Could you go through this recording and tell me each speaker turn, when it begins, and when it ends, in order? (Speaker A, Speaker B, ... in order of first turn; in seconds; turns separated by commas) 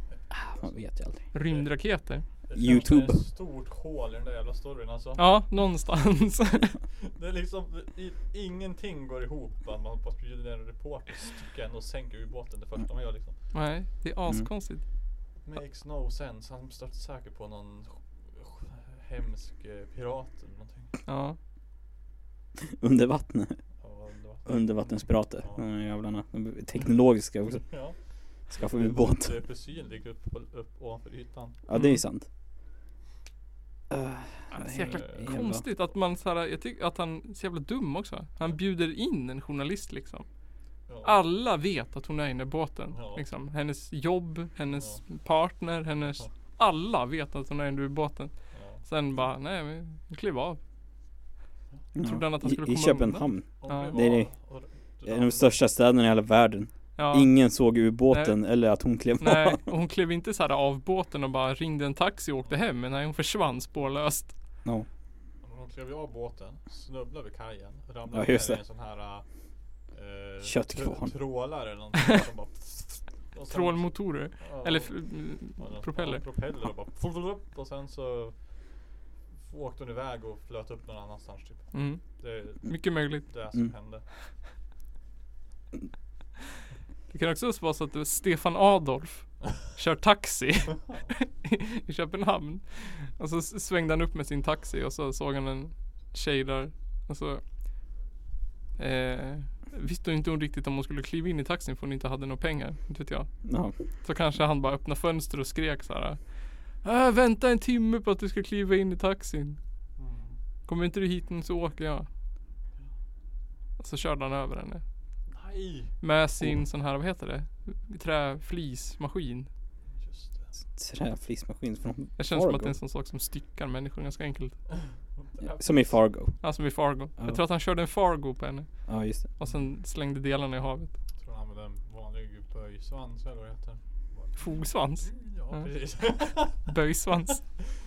Speaker A: 0.3-1.2, Speaker B: 1.3-2.2, Speaker C: 2.5-5.3, Speaker A: 2.5-3.2, Speaker B: 5.2-6.8, Speaker C: 7.0-13.4, Speaker B: 13.5-14.8, Speaker C: 15.4-20.9, Speaker B: 21.1-21.4, Speaker A: 22.6-23.6, Speaker C: 23.8-25.6, Speaker A: 24.5-27.8, Speaker C: 27.6-31.6, Speaker A: 28.5-29.4, Speaker A: 31.7-32.3, Speaker B: 31.7-32.0, Speaker A: 33.9-35.6, Speaker B: 34.5-40.3, Speaker C: 34.8-35.2, Speaker C: 40.9-41.1, Speaker B: 41.0-50.6, Speaker C: 42.9-43.2, Speaker C: 44.7-45.0, Speaker C: 48.5-48.8, Speaker A: 52.0-54.3, Speaker B: 52.0-54.0, Speaker C: 53.6-55.5, Speaker A: 55.1-59.6, Speaker B: 57.0-57.3, Speaker B: 59.2-64.3, Speaker C: 65.4-69.2, Speaker A: 68.1-68.6, Speaker C: 69.9-75.0, Speaker A: 70.5-71.1, Speaker B: 73.5-76.2, Speaker C: 75.6-78.5, Speaker C: 79.5-84.0, Speaker B: 81.7-83.3, Speaker B: 87.1-97.4, Speaker B: 98.8-103.5, Speaker A: 103.5-103.7, Speaker B: 104.0-106.2, Speaker B: 106.7-109.6, Speaker C: 110.0-110.4, Speaker B: 110.7-112.1, Speaker B: 113.8-114.8, Speaker C: 115.3-115.9, Speaker B: 116.0-119.5, Speaker C: 119.9-120.5, Speaker A: 120.8-122.8, Speaker B: 122.2-124.6, Speaker C: 125.2-126.0, Speaker A: 125.6-126.4, Speaker B: 126.4-130.9, Speaker A: 128.9-129.2, Speaker C: 131.2-136.7, Speaker B: 134.4-135.7, Speaker B: 136.6-137.5